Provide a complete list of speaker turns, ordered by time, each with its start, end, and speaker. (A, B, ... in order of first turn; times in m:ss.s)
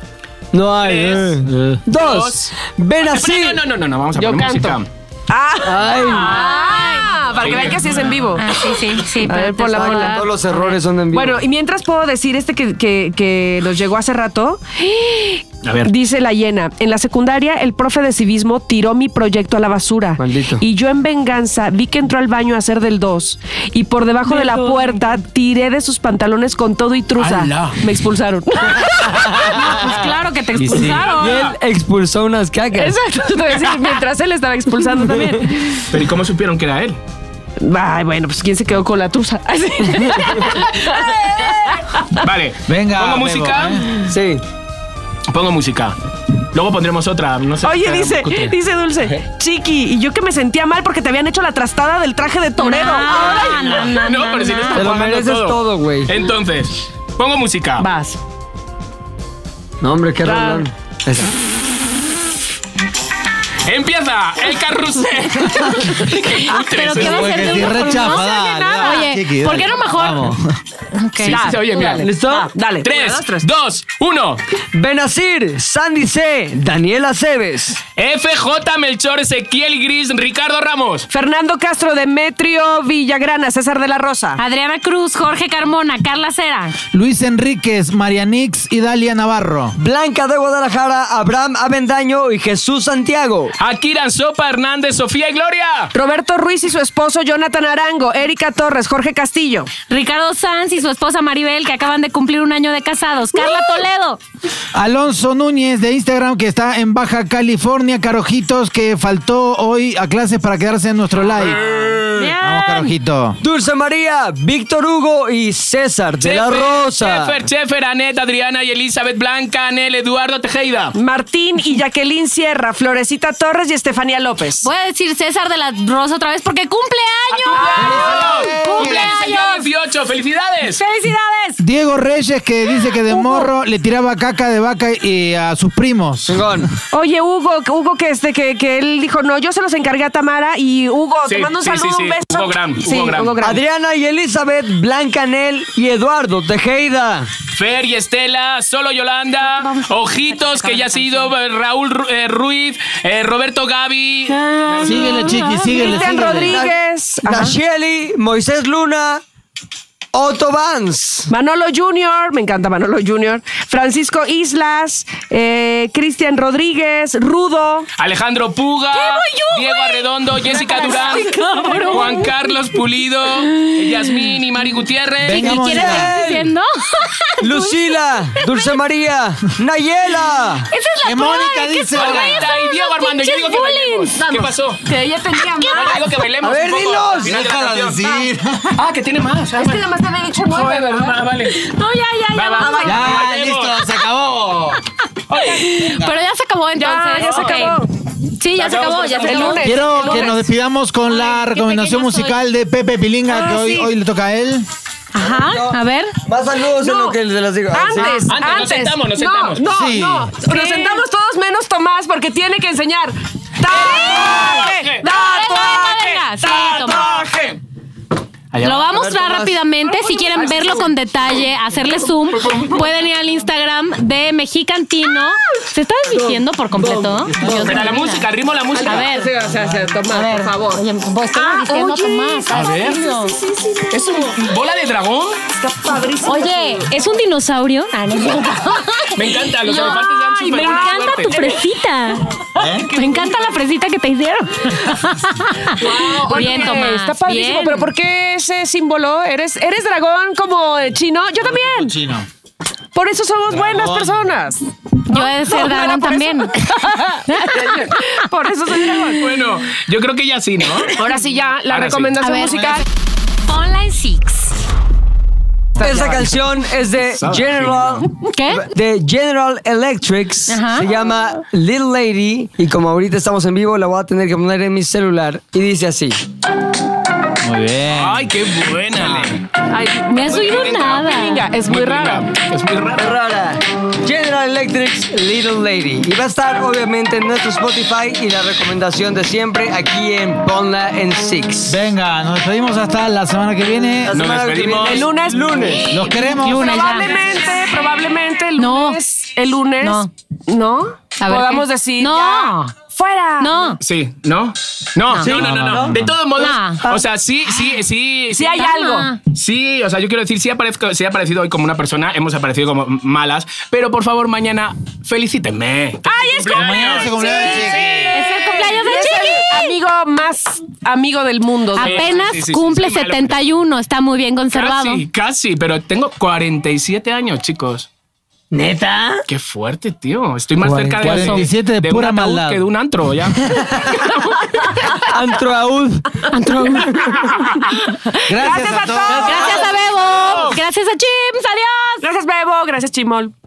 0:00.5-0:03.6 A
0:00.8-0:04.9 B
0:04.2-0:10.3 C
0:05.6-0:06.4 A
0:06.1-0:07.2 D
0:07.3-0:08.4 B
0:08.4-0:10.8 D
0:09.3-0:11.4 A
0:11.1-0:30.0 C
0:15.6-0:15.9 B
0:20.2-0:20.6 A
0:24.3-0:25.0 D
0:27.2-0:27.8 B
0:29.5-0:31.5 D
0:30.6-0:31.0 E
0:30.7-0:31.5 B
0:31.1-0:33.0 A
0:32.8-0:35.9 C
0:35.0-0:35.4 A
0:35.9-0:37.0 B
0:37.6-0:42.3 C
0:42.2-0:43.9 B
0:42.7-0:43.9 E
0:44.0-0:44.4 A
0:45.3-0:46.0 B
0:46.5-0:49.2 B
0:47.6-0:53.9 C
0:52.6-0:54.9 D
0:53.1-0:57.9 B
0:54.7-0:56.1 A
0:57.8-0:58.2 C
0:59.8-1:01.3 A
1:00.2-1:00.6 C
1:03.6-1:07.7 B
1:06.3-1:10.3 D
1:06.9-1:10.6 E
1:07.5-1:09.1 C
1:11.0-1:11.4 D
1:11.2-1:12.1 B
1:11.3-1:13.5 C
1:11.8-1:12.5 A
1:12.8-1:14.4 B
1:14.7-1:17.8 A
1:18.0-1:21.1 B
1:21.1-1:24.4 C
1:24.4-1:26.8 D
1:26.9-1:29.8 E
1:29.8-1:33.5 A
1:33.6-1:35.9 B
1:35.9-1:39.7 C
1:39.9-1:44.2 D
1:44.7-1:53.4 E
1:51.5-1:52.3 A
1:52.1-1:52.9 C
1:53.4-1:57.5 A
1:56.2-2:01.0 B
2:01.0-2:04.7 C
2:04.6-2:09.7 D
2:07.3-2:10.8 B
2:07.5-2:09.0 C
2:07.8-2:09.1 E
2:10.8-2:11.6 D
2:11.6-2:16.5 E
2:13.1-2:13.5 D
2:16.3-2:16.7 A
2:16.9-2:23.6 C
2:21.3-2:23.4 B
2:23.4-2:27.3 A
2:27.5-2:35.4 B
2:29.4-2:31.3 D
2:34.8-2:36.6 E
2:35.0-2:36.1 D
2:35.1-2:37.5 C
2:36.1-2:39.2 A
2:40.1-2:41.3 A
2:41.3-2:47.9 C
2:48.0-2:51.3 B
2:48.9-2:52.3 D
2:50.5-2:52.2 C
2:51.9-2:55.7 B
2:53.5-2:54.2 D
2:55.2-2:56.2 E
2:55.3-2:58.7 D
2:55.7-2:56.4 A
2:56.0-2:56.4 C
2:57.4-3:00.7 A
3:00.7-3:04.2 D
3:01.0-3:02.5 E
3:02.0-3:04.9 B
3:04.2-3:06.1 C
3:05.5-3:06.0 D
3:05.6-3:08.0 B
3:06.4-3:07.3 A
3:07.2-3:08.7 E
3:08.7-3:09.9 B
3:09.6-3:11.2 C
3:10.5-3:11.6 B
3:11.5-3:13.2 D
3:12.3-3:13.8 B
3:12.6-3:13.3 C
3:12.8-3:14.8 E
3:15.3-3:20.3 D
3:15.4-3:15.9 C
3:15.8-3:16.1 E
3:16.8-3:17.9 C
3:18.6-3:19.6 B
3:19.0-3:20.4 C
3:19.6-3:24.7 E
3:21.1-3:22.4 D
3:23.3-3:23.9 C
3:25.1-3:26.1 D
3:25.3-3:28.3 A
3:26.8-3:27.2 C
3:27.7-3:37.6 C
3:28.2-3:29.6 B
3:29.7-3:30.4 E
3:30.4-3:31.0 D
3:33.7-3:35.0 B
3:35.0-3:37.1 D
3:36.9-3:37.3 B
3:38.5-3:38.8 B
3:38.6-3:48.3 D
3:38.8-3:39.6 A
3:39.8-3:40.9 C
3:42.4-3:42.7 B
3:42.5-3:42.8 C
3:46.1-3:47.8 C
3:47.4-3:49.1 B
3:48.8-3:54.3 C
3:48.8-3:49.3 D
3:50.1-3:53.4 D
3:52.5-3:53.0 B
3:53.9-3:55.4 B
3:55.6-3:56.9 C
3:56.2-4:07.9 D
3:59.1-4:01.4 B
3:59.7-4:01.6 C
4:02.6-4:02.9 E
4:02.6-4:03.2 C
4:05.8-4:12.0 C
4:11.5-4:12.3 E
4:12.9-4:19.5 C
4:13.6-4:14.2 E
4:15.1-4:18.3 D
4:19.2-4:21.0 B
4:20.9-4:22.8 C
4:21.7-4:22.5 B
4:22.2-4:22.8 D
4:23.4-4:24.6 D
4:25.8-4:26.4 C
4:25.8-4:26.2 B
4:25.8-4:36.2 A
4:27.0-4:28.0 B
4:28.3-4:28.6 D
4:30.5-4:30.9 D
4:37.4-4:38.2 E
4:37.9-4:39.5 B
4:39.7-4:42.3 C
4:40.1-4:41.5 D
4:40.3-4:43.1 B
4:43.0-4:51.8 A
4:51.7-4:54.2 E
4:54.1-4:55.9 A
4:54.1-4:55.1 B
4:54.8-4:55.8 C
4:55.8-4:57.5 D
4:55.9-4:56.9 E
4:56.5-5:03.8 C
4:58.6-4:59.0 D
4:59.8-5:00.1 D
5:01.2-5:02.8 D
5:03.4-5:03.8 D
5:03.8-5:17.7 B
5:05.2-5:06.2 E
5:05.4-5:05.9 A
5:06.4-5:06.9 D
5:08.3-5:09.1 C
5:08.6-5:09.2 D
5:16.1-5:22.4 C
5:16.5-5:18.2 E
5:18.1-5:19.7 D
5:21.8-5:25.0 D
5:21.8-5:23.4 B
5:24.5-5:27.9 B
5:28.5-5:29.2 A
5:29.3-5:33.4 B
5:30.6-5:32.6 E
5:31.0-5:31.5 D
5:33.5-5:34.0 A
5:34.9-5:36.1 A
5:36.3-5:37.2 D
5:38.2-5:39.8 C
5:38.3-5:40.6 E
5:39.2-5:42.1 D
5:42.0-5:43.3 C